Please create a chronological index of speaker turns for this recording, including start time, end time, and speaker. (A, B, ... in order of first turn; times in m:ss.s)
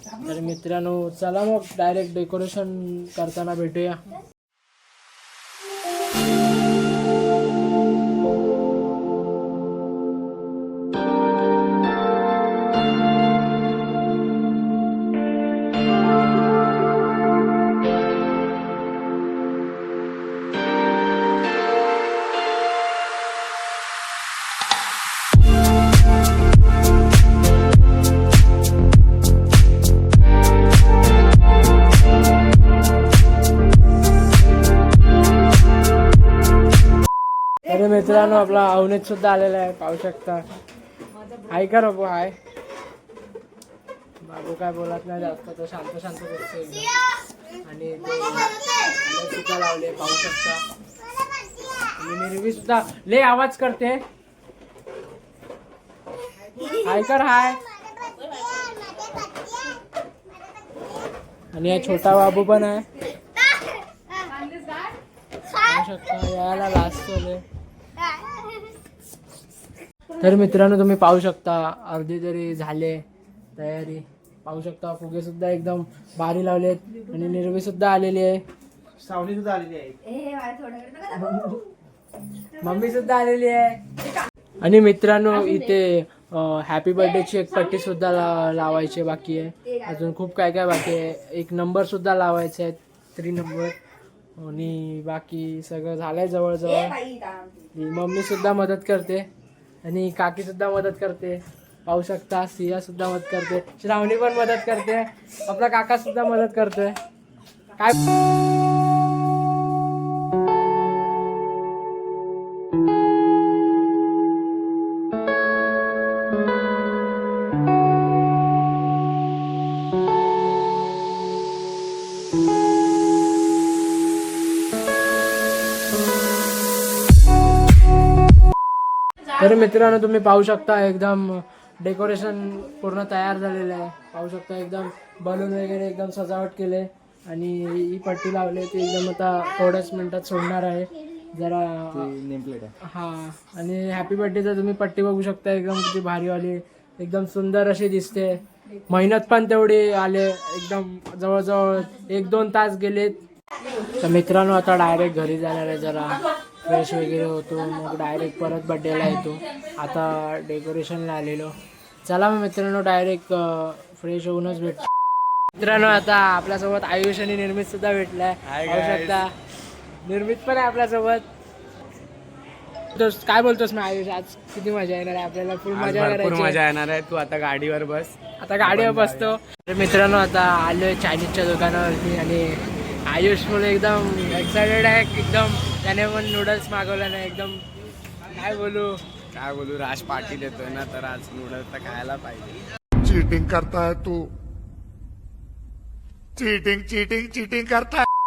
0:00.2-0:04.0 A
0:37.6-0:40.4 A
0:41.4-0:42.3 A
0:44.2-0:46.9 A
0:47.6-0:50.6 A
0:52.0-0:54.0 A
0:56.6-0:57.6 A
1:01.5-1:02.9 A
1:05.5-1:07.4 A
1:10.2-1:13.0 A
1:13.6-1:18.4 A
1:19.0-1:19.9 B
1:20.7-1:21.6 A
1:22.6-1:23.8 A
1:24.6-1:33.8 A
1:34.4-1:37.0 A
1:37.7-1:39.3 A
1:39.8-1:47.0 A
2:09.3-2:22.2 A
2:22.0-2:22.7 B
2:22.8-2:33.2 A
2:34.0-2:41.5 A
2:42.0-2:44.9 A
2:45.5-2:49.3 A
2:48.5-2:49.2 B
2:50.0-2:51.3 A
2:52.9-2:56.6 A
2:55.7-2:58.1 B
2:58.4-3:07.6 A
2:58.6-2:59.3 B
3:08.3-3:09.0 A
3:09.3-3:12.6 B
3:13.0-3:14.3 C
3:16.4-3:18.1 C